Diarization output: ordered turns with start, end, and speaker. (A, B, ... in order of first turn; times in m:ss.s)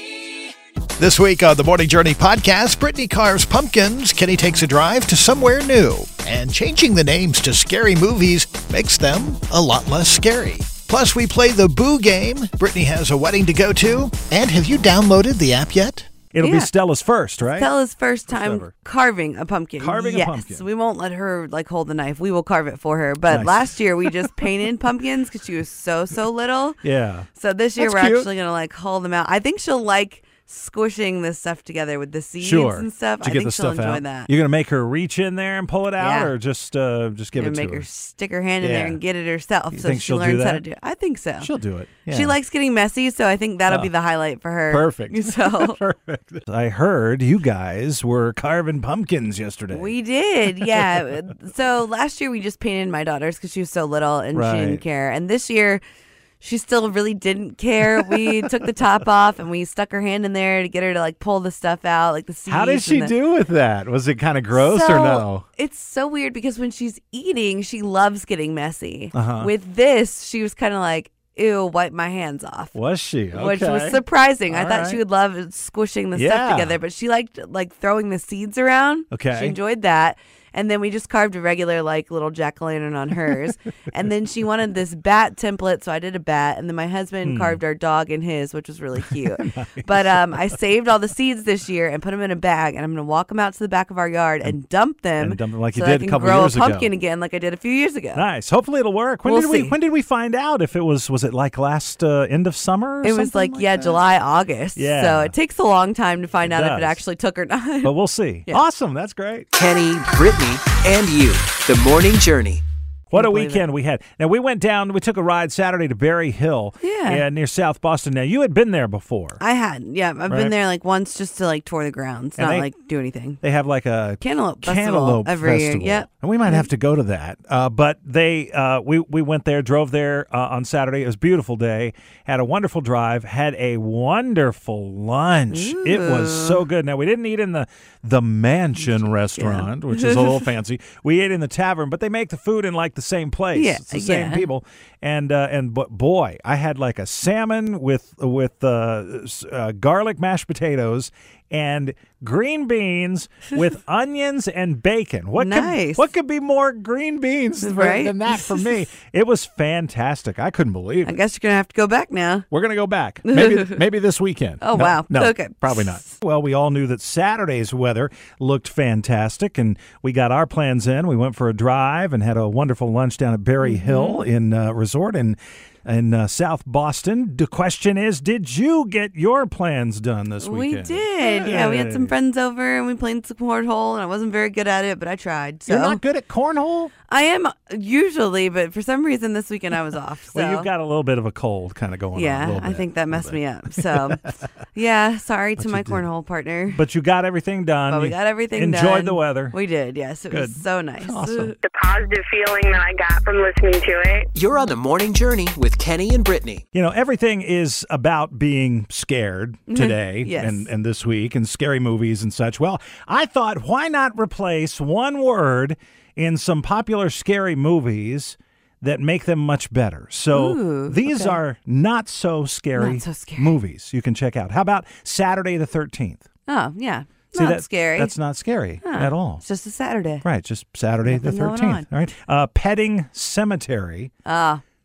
0:01.0-0:16.1 A
0:16.3-0:17.7 B
0:16.4-0:16.7 C
0:17.6-0:26.8 C
0:18.3-0:18.7 B
0:19.8-0:20.6 B
0:23.3-0:24.5 B
0:26.8-0:28.3 B
0:27.4-0:34.3 C
0:32.4-0:37.9 B
0:36.0-0:36.3 C
0:37.4-0:41.5 C
0:38.6-0:39.0 B
0:39.7-0:40.6 B
0:41.4-0:42.4 B
0:42.1-0:45.8 C
0:43.7-0:43.9 B
0:44.7-0:49.9 B
0:49.7-0:55.8 C
0:50.6-0:51.2 B
0:54.3-0:54.8 B
0:56.4-1:03.1 C
0:58.1-0:58.4 B
1:02.5-1:05.4 B
1:04.5-1:12.8 C
1:09.1-1:09.5 B
1:12.8-1:15.0 B
1:13.3-1:38.2 C
1:16.1-1:16.8 B
1:19.1-1:19.6 B
1:27.2-1:27.6 B
1:29.4-1:30.6 B
1:35.2-1:36.9 B
1:38.2-1:44.0 B
1:39.2-1:39.8 C
1:43.0-1:47.9 C
1:44.8-1:45.4 B
1:46.4-1:47.0 B
1:47.8-1:49.5 B
1:49.6-1:52.6 D
1:53.1-1:59.4 B
1:53.1-1:53.7 C
1:56.8-1:57.2 C
1:59.4-2:03.4 C
2:00.3-2:00.6 B
2:02.4-2:02.7 B
2:03.4-2:41.2 B
2:04.2-2:06.7 C
2:15.5-2:16.6 C
2:19.4-2:20.4 C
2:23.5-2:24.5 C
2:35.4-2:36.1 C
2:37.6-2:38.6 C
2:41.0-2:42.5 C
2:42.5-3:02.2 B
2:43.2-2:43.8 C
2:44.6-2:46.1 C
2:53.6-2:54.2 C
3:00.4-3:06.0 C
3:05.7-3:06.9 B
3:07.1-3:10.7 C
3:10.3-3:14.3 B
3:12.2-3:16.8 C
3:15.6-3:16.1 B
3:16.7-3:19.6 B
3:17.9-3:21.6 C
3:20.3-3:21.6 B
3:21.6-3:24.3 E
3:24.4-3:26.6 D
3:26.7-3:46.2 B
3:29.7-3:30.7 C
3:40.3-3:41.4 C
3:42.8-3:43.6 C
3:46.5-3:48.1 C
3:47.4-3:49.4 B
3:48.8-3:50.2 C
3:50.2-3:54.1 B
3:51.1-3:51.9 C
3:54.2-3:54.6 C